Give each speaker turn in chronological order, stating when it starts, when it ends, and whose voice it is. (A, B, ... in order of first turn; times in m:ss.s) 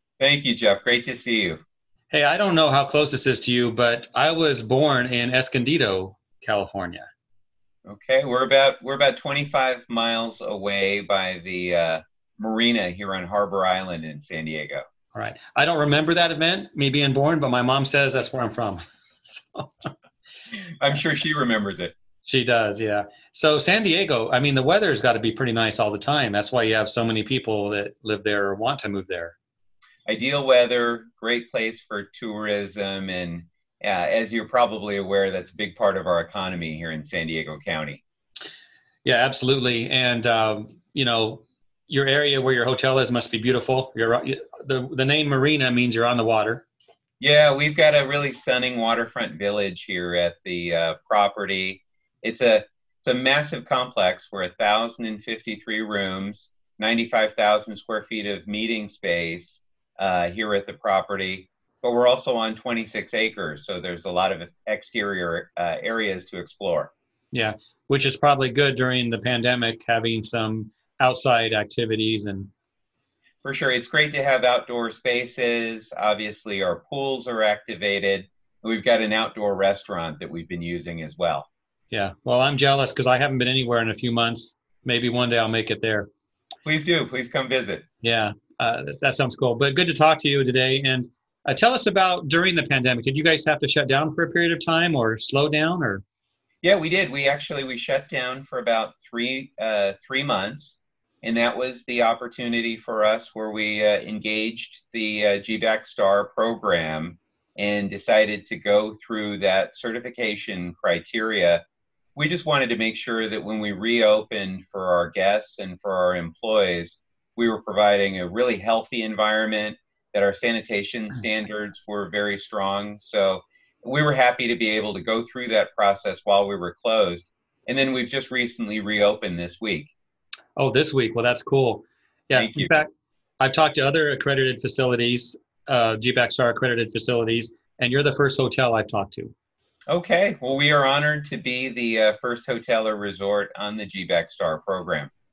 0:00.2-0:01.6 A
0:02.1-0:07.1 B
0:07.9-0:14.8 A
0:15.1-0:19.9 B
0:20.8-0:21.9 A
0:22.2-0:29.4 B
0:30.1-0:38.0 A
0:39.0-0:46.6 B
0:47.2-1:06.9 A
1:07.3-1:12.5 B
1:13.4-1:21.5 A
1:21.9-1:26.1 B
1:26.6-1:27.8 A
1:28.0-1:36.0 B
1:36.6-1:51.6 A
1:52.2-2:09.9 A
2:10.6-2:19.3 B
2:12.4-2:12.8 A
2:19.9-2:25.1 A